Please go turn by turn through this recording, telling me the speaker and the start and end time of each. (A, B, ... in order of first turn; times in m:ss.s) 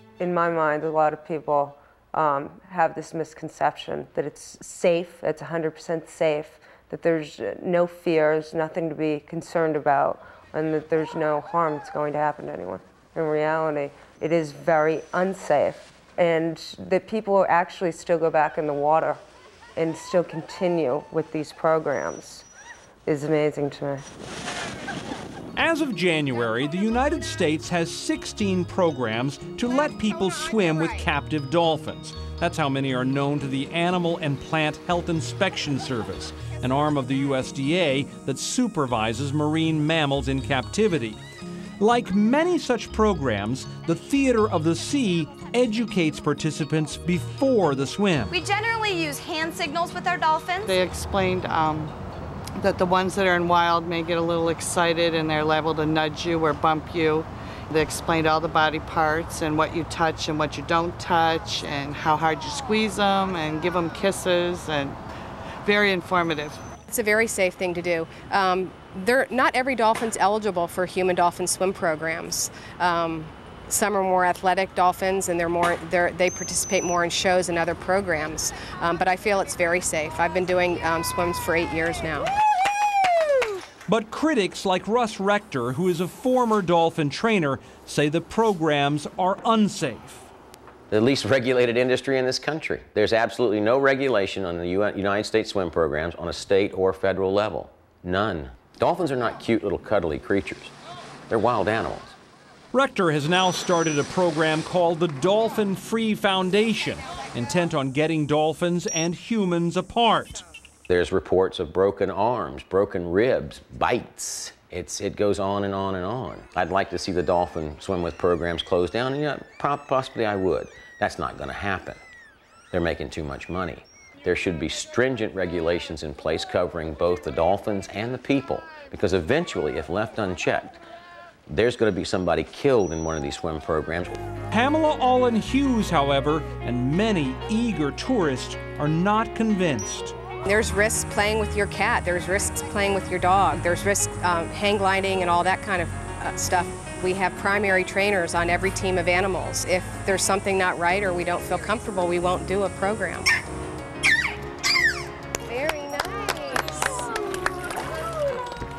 0:00.2-0:19.2 A
0:19.8-0:22.5 A
0:23.1-0:24.1 A
0:25.6-0:41.2 B
0:41.8-0:48.3 B
0:48.3-0:50.7 C
0:50.6-0:51.9 D
0:52.6-1:05.0 D
1:05.6-1:06.6 D
1:06.9-1:22.3 E
1:23.9-1:30.3 B
1:30.9-1:40.7 F
1:41.3-1:42.2 F
1:42.7-1:50.4 B
1:50.9-2:02.0 F
2:02.7-2:10.8 F
2:11.5-2:14.2 F
2:14.5-2:20.2 B
2:20.4-2:33.3 E
2:35.5-2:37.5 E